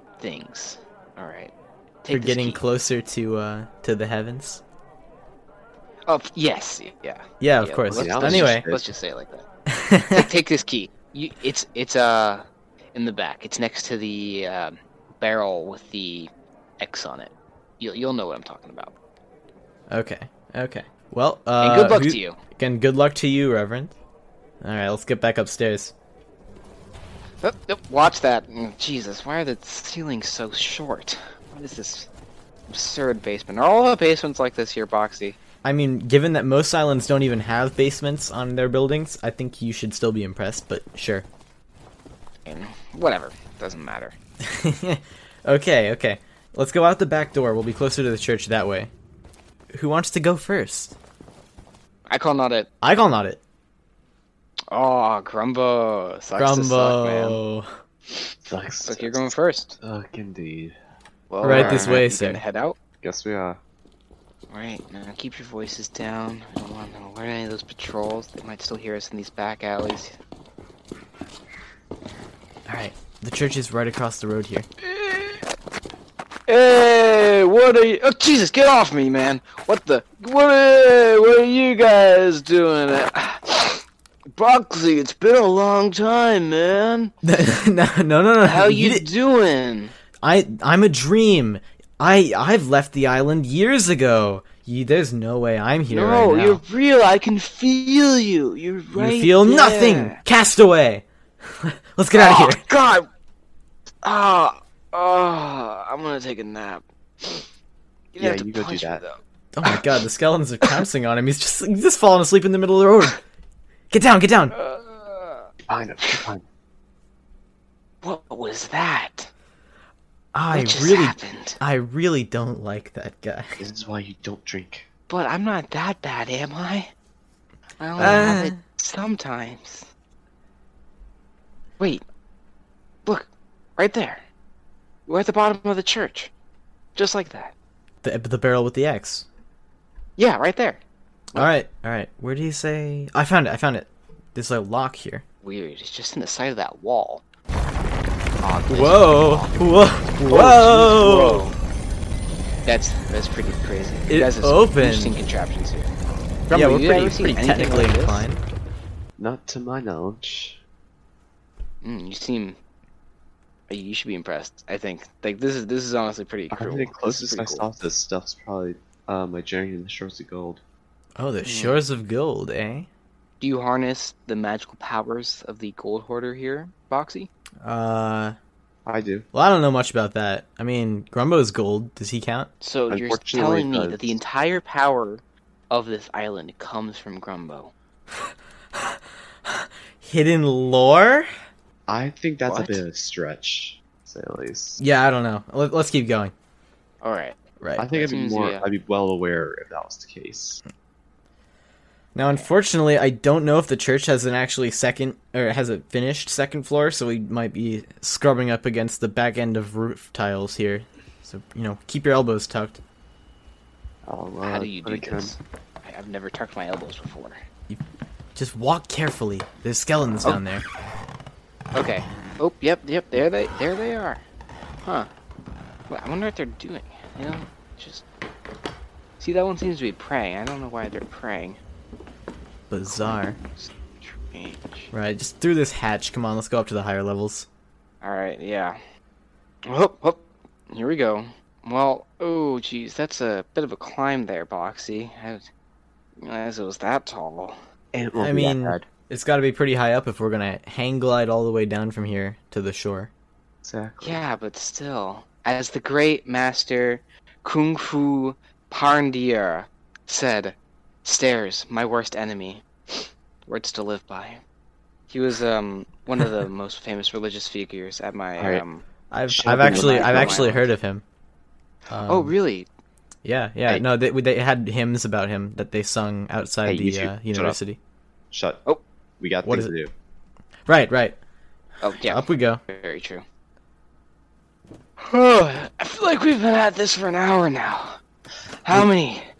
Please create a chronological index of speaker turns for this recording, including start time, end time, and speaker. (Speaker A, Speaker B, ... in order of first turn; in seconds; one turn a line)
Speaker A: 0.2-1.5
Speaker A: 2.0-2.6
Speaker B: 2.1-4.6
Speaker A: 6.1-9.5
Speaker B: 7.4-8.7
Speaker C: 7.9-8.9
Speaker B: 9.7-10.3
Speaker A: 10.1-18.9
Speaker B: 19.9-24.0
Speaker A: 21.6-22.4
Speaker B: 24.6-25.9
Speaker A: 27.4-32.1
Speaker A: 32.7-35.4
Speaker B: 35.6-41.3
Speaker A: 42.5-44.2
Speaker B: 44.4-48.9
Speaker B: 49.7-51.0
Speaker A: 52.1-52.7
Speaker B: 52.8-53.4
Speaker A: 54.7-57.4
Speaker B: 56.4-57.7
Speaker C: 58.5-60.8
Speaker A: 58.9-59.8
Speaker A: 61.3-62.8
Speaker B: 61.4-62.4
Speaker C: 61.4-62.0
Speaker C: 63.0-63.6
Speaker A: 64.5-70.2
Speaker B: 72.7-74.7
Speaker A: 74.8-75.4
Speaker A: 76.5-83.8
Speaker A: 84.3-87.1
Speaker B: 87.2-89.1
Speaker A: 88.4-89.9
Speaker B: 90.2-96.6
Speaker A: 95.9-100.2
Speaker B: 99.0-102.7
Speaker A: 102.1-103.1
Speaker A: 104.0-107.4
Speaker A: 108.2-109.8
Speaker C: 108.2-109.0
Speaker B: 109.5-113.2
Speaker B: 113.9-114.5
Speaker A: 114.5-115.5
Speaker C: 115.7-116.4
Speaker A: 118.0-119.3
Speaker B: 120.3-123.6
Speaker A: 120.5-121.6
Speaker C: 123.6-124.9
Speaker A: 125.1-126.9
Speaker A: 127.8-129.9
Speaker B: 128.0-128.6
Speaker C: 128.0-128.3
Speaker A: 131.8-132.0
Speaker A: 133.1-134.2
Speaker A: 135.1-136.3
Speaker A: 137.0-137.5
Speaker B: 138.0-139.3
Speaker A: 140.2-140.8
Speaker B: 141.3-145.2
Speaker A: 145.4-147.2
Speaker A: 148.4-149.7
Speaker B: 148.7-151.4
Speaker A: 150.3-151.6
Speaker A: 152.7-155.9
Speaker B: 154.1-155.2
Speaker A: 156.5-158.3
Speaker B: 156.5-158.4
Speaker C: 159.2-160.6
Speaker A: 161.8-162.6
Speaker A: 163.7-167.7
Speaker C: 166.5-170.6
Speaker B: 171.2-172.9
Speaker A: 171.4-171.8
Speaker A: 173.4-177.3
Speaker B: 177.6-178.4
Speaker C: 178.9-179.3
Speaker B: 179.3-182.5
Speaker A: 182.6-187.7
Speaker C: 182.9-184.2
Speaker B: 188.1-191.3
Speaker C: 191.9-194.8
Speaker A: 192.5-192.8
Speaker B: 194.8-196.3
Speaker A: 197.0-197.4
Speaker B: 197.6-197.9
Speaker C: 197.8-200.6
Speaker A: 198.0-198.7
Speaker B: 202.2-212.8
Speaker C: 214.1-215.3
Speaker A: 214.4-217.4
Speaker B: 218.4-220.7
Speaker A: 221.8-224.2
Speaker A: 225.9-228.0
Speaker A: 229.2-231.6
Speaker B: 232.7-233.4
Speaker A: 232.9-234.9
Speaker B: 234.9-237.5
Speaker A: 238.0-238.8
Speaker A: 239.7-245.5
Speaker A: 246.2-247.6
Speaker C: 247.9-248.9
Speaker B: 248.2-253.1
Speaker C: 253.6-254.2
Speaker A: 254.0-264.4
Speaker A: 265.1-268.8
Speaker C: 268.4-268.6
Speaker B: 269.1-271.0
Speaker C: 269.3-270.6
Speaker A: 269.6-270.6
Speaker B: 271.9-272.3
Speaker A: 272.1-272.7
Speaker B: 273.2-277.8
Speaker C: 276.6-277.6
Speaker C: 278.3-278.6
Speaker C: 279.2-279.9
Speaker B: 279.4-279.7
Speaker B: 280.7-281.2
Speaker A: 281.8-283.2
Speaker B: 282.1-282.6
Speaker A: 285.0-288.0
Speaker A: 288.6-289.3